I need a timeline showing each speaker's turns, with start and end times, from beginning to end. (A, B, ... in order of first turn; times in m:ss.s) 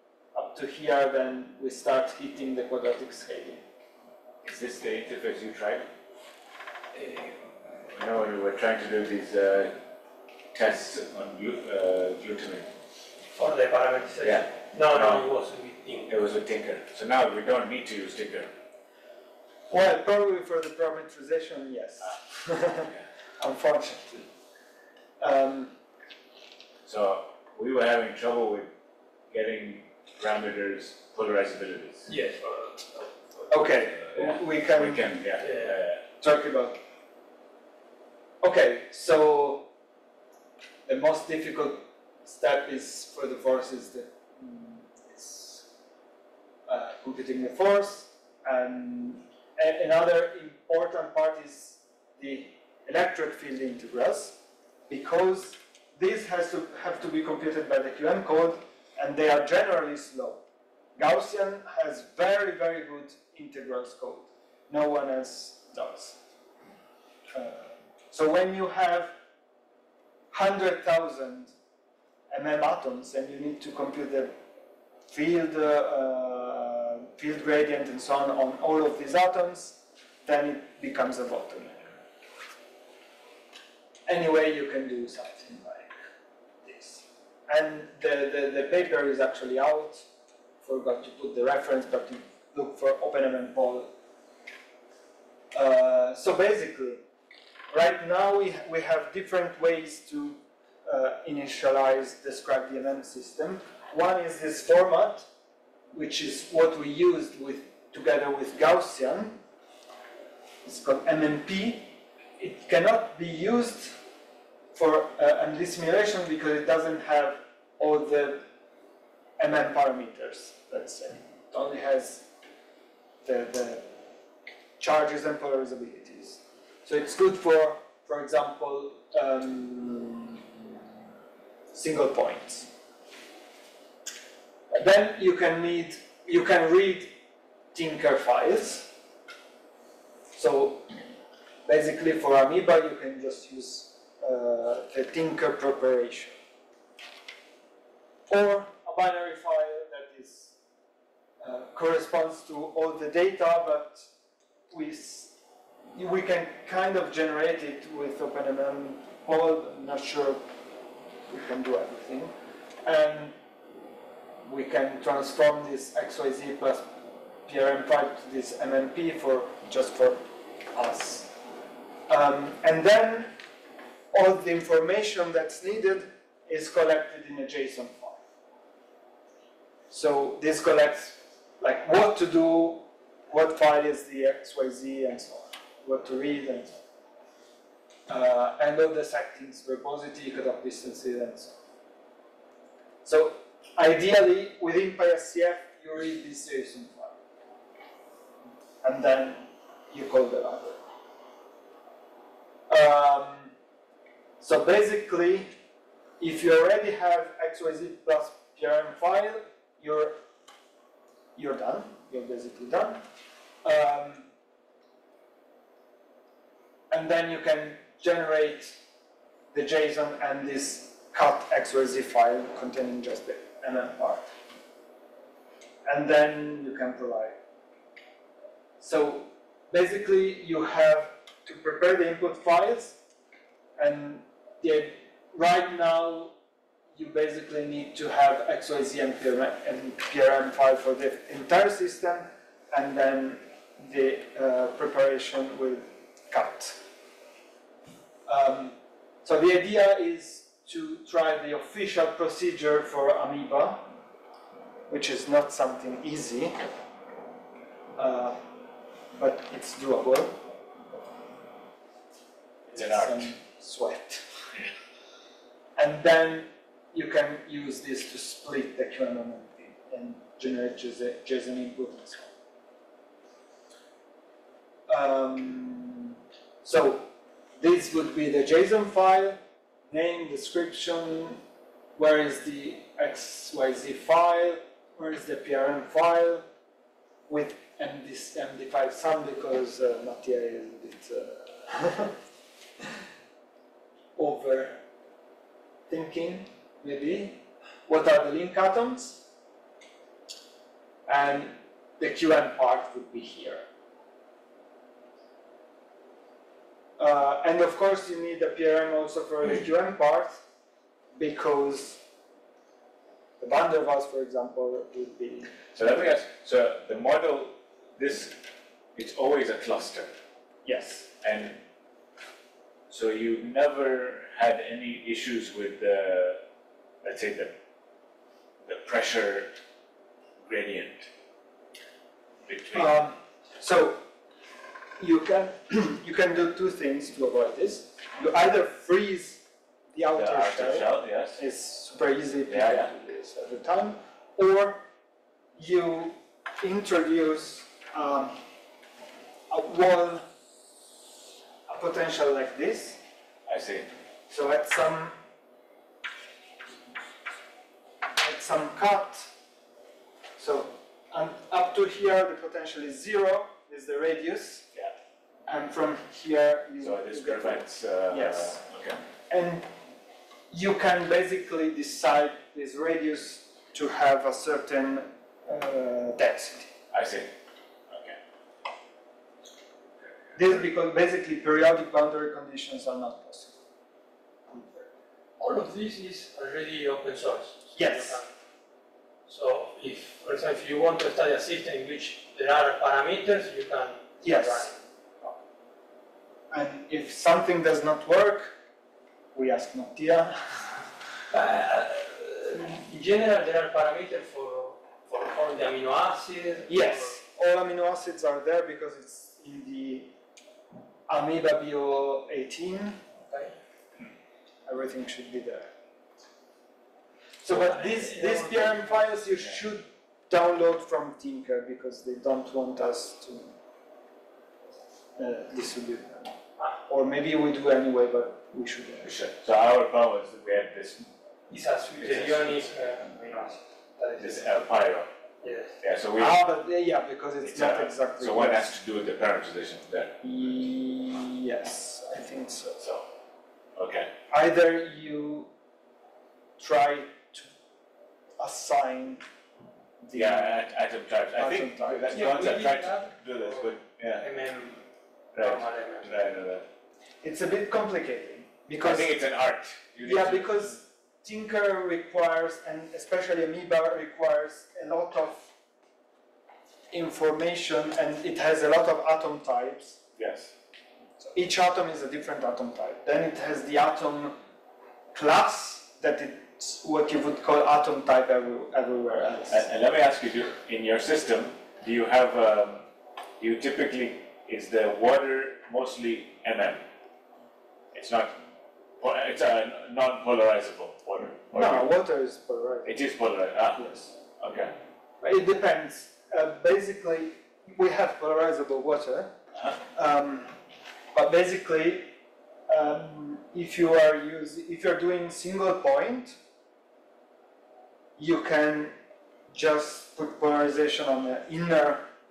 0:00.3-0:03.6 A
0:04.4-0:05.9 B
0:06.9-0:09.8 B
0:10.5-0:12.7 B
0:13.4-0:16.1 C
0:14.2-0:15.2 B
0:16.1-0:18.5 B
0:19.7-0:24.3 A
0:25.2-0:25.7 A
0:26.8-0:28.7 B
0:29.3-0:32.1 B
0:32.1-0:33.1 C
0:33.5-0:35.4 A
0:33.8-0:36.0 B
0:35.4-0:35.8 C
0:36.2-0:36.8 A
0:38.4-0:39.7 A
0:40.8-0:45.6 A
0:46.7-1:00.4 A
1:01.0-1:06.2 A
1:07.3-1:09.1 A
1:10.3-1:11.5 A
1:12.3-1:14.3 A
1:15.1-1:21.8 A
1:24.1-1:25.9 A
1:26.6-1:30.0 A
1:30.6-1:33.9 A
1:35.5-1:37.0 A
1:37.7-1:45.3 A
1:45.9-1:49.4 A
1:50.6-1:54.0 A
1:54.7-1:58.4 A
1:59.4-2:02.3 A
2:03.2-2:03.9 A
2:04.8-2:10.7 A
2:11.7-2:12.7 A
2:14.7-2:17.1 A
2:17.7-2:18.9 A
2:20.3-2:20.9 A
2:21.6-2:26.4 A
2:28.3-2:30.6 A
2:31.4-2:34.0 A
2:34.7-2:35.3 A
2:35.9-2:40.4 A
2:41.3-2:43.3 A
2:44.4-2:46.9 A
2:47.4-2:50.2 A
2:50.7-2:51.3 A
2:52.1-2:53.3 A
2:54.1-2:58.2 A
2:59.9-3:06.8 A
3:08.1-3:11.5 A
3:13.0-3:17.2 A
3:18.8-3:20.8 A
3:22.7-3:23.5 A
3:24.4-3:25.5 A
3:26.2-3:30.2 A
3:31.3-3:33.0 A
3:33.6-3:34.3 A
3:36.9-3:38.8 A
3:39.5-3:44.3 A
3:45.8-3:47.4 A
3:48.8-3:53.0 A
3:53.8-3:56.3 A
3:56.9-4:06.8 A
4:08.3-4:13.9 A
4:14.9-4:16.6 A
4:18.0-4:18.4 A
4:19.1-4:20.4 A
4:22.7-4:24.3 A
4:22.7-4:23.3 B
4:25.8-4:32.3 A
4:34.9-4:37.1 A
4:37.6-4:39.4 A
4:39.9-4:41.4 A
4:42.0-4:46.4 A
4:47.3-4:52.1 A
4:54.2-4:54.8 A
4:55.9-4:59.2 A
5:01.1-5:03.6 A
5:07.0-5:10.4 A
5:11.1-5:12.0 A
5:13.4-5:15.6 A
5:15.7-5:18.4 B
5:18.9-5:20.1 B
5:20.6-5:21.1 A
5:21.2-5:21.6 B
5:22.9-5:26.4 B
5:27.0-5:27.6 B
5:28.6-5:29.5 B
5:30.4-5:31.1 B
5:32.4-5:32.9 B
5:32.7-5:34.0 A
5:35.0-5:44.8 A
5:40.1-5:41.4 B
5:42.5-5:42.9 B
5:45.6-5:48.4 A
5:49.5-5:50.2 A
5:51.7-5:53.0 A
5:53.4-5:53.9 B
5:54.3-5:55.2 A
5:58.2-5:59.3 A
6:00.4-6:04.8 A
6:05.5-6:08.6 A
6:06.8-6:09.0 B
6:09.3-6:09.7 A
6:10.5-6:16.7 A
6:16.9-6:17.3 B
6:17.9-6:18.2 B
6:20.3-6:23.6 A
6:24.5-6:24.8 A
6:25.4-6:28.3 C
6:27.7-6:28.2 A
6:29.3-6:34.7 C
6:34.2-6:35.3 A
6:36.5-6:38.5 A
6:39.3-6:40.6 A
6:41.3-6:47.2 C
6:46.7-6:50.1 A
6:51.1-6:53.0 A
6:54.6-6:55.7 A
6:57.4-7:03.5 A
6:57.5-6:59.1 C
7:05.2-7:06.4 A
7:06.9-7:09.1 A
7:09.0-7:11.1 B
7:11.5-7:13.5 C
7:12.0-7:12.6 B
7:14.0-7:14.4 A
7:14.2-7:15.1 B
7:15.4-7:15.7 C
7:15.8-7:16.4 B
7:16.2-7:18.7 A
7:17.4-7:20.2 B
7:20.2-7:22.8 A
7:22.8-7:23.1 B
7:23.8-7:24.1 B
7:24.3-7:25.5 A
7:26.6-7:27.5 A
7:28.4-7:29.2 A
7:30.0-7:30.6 A
7:30.1-7:34.3 B
7:31.3-7:32.8 A
7:32.1-7:34.8 C
7:35.3-7:36.1 C
7:35.3-7:36.6 B
7:37.2-7:39.1 A
7:38.8-7:40.8 B
7:40.0-7:45.5 A
7:46.9-7:50.0 A
7:50.2-7:50.5 B
7:51.2-7:54.4 A
7:55.1-7:59.6 A
7:59.5-8:02.8 B
8:03.4-8:06.8 B
8:07.9-8:08.3 B
8:09.0-8:11.9 B
8:11.5-8:13.0 A
8:12.8-8:13.8 B
8:13.7-8:14.1 A
8:14.4-8:14.7 B
8:15.2-8:19.3 A
8:19.9-8:20.5 A
8:21.1-8:22.1 A
8:22.7-8:26.4 A
8:28.2-8:28.9 A
8:29.5-8:32.0 A